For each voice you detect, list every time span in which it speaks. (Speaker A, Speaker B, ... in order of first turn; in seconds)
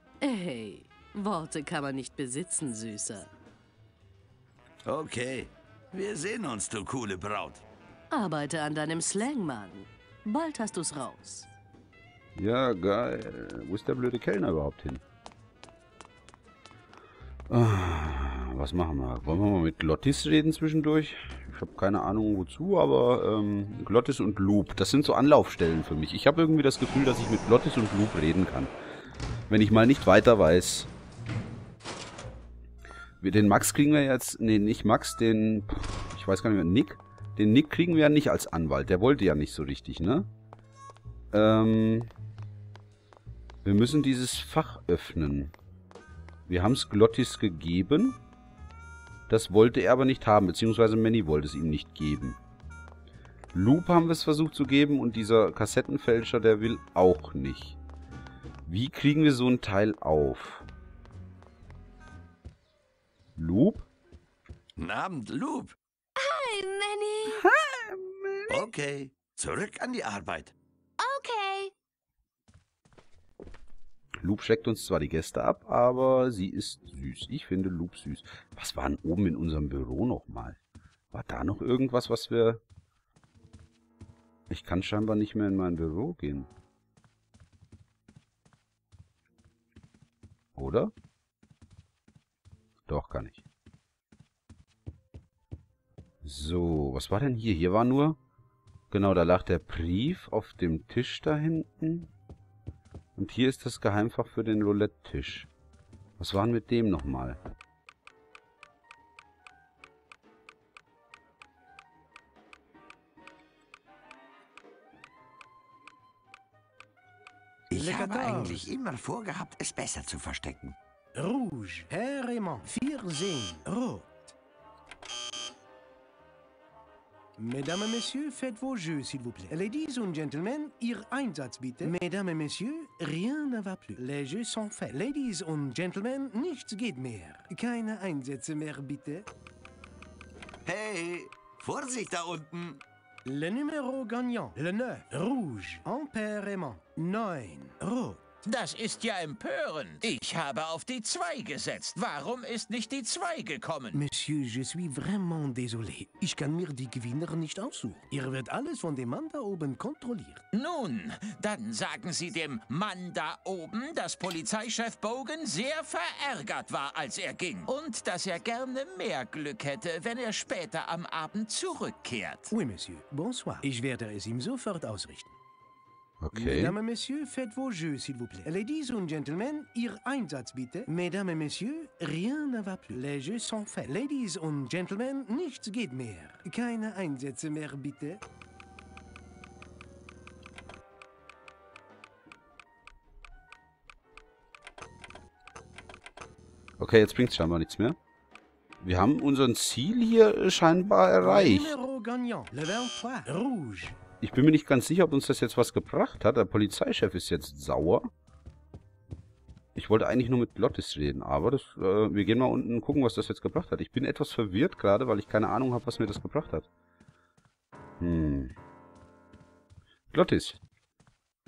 Speaker A: 0.2-3.3, 8.1-11.5
Speaker B: 4.9-7.6, 64.8-65.8, 68.5-70.5, 117.7-120.8, 140.7-142.8
Speaker C: 12.4-15.0, 17.5-28.7, 29.5-30.9, 33.2-40.3, 41.3-42.1, 43.6-45.5, 46.5-48.2, 49.3-52.4, 53.5-57.8, 58.7-60.7, 63.4-63.9, 67.2-68.7, 74.2-80.6, 81.1-82.6, 84.5-86.5, 90.6-90.9, 92.9-93.4, 96.2-98.2, 98.9-102.1, 103.2-105.5, 106.2-107.4, 176.2-176.8, 196.8-198.0, 198.8-201.8, 204.2-208.1, 209.8-216.7, 218.0-218.5, 220.1-220.6
Speaker D: 66.2-67.4, 71.0-71.7
Speaker E: 117.7-118.7, 121.1-124.3, 127.4-139.3, 143.2-148.2, 153.9-160.4, 172.5-175.3, 176.3-188.2, 201.2-204.0
Speaker F: 148.4-154.0, 160.5-172.5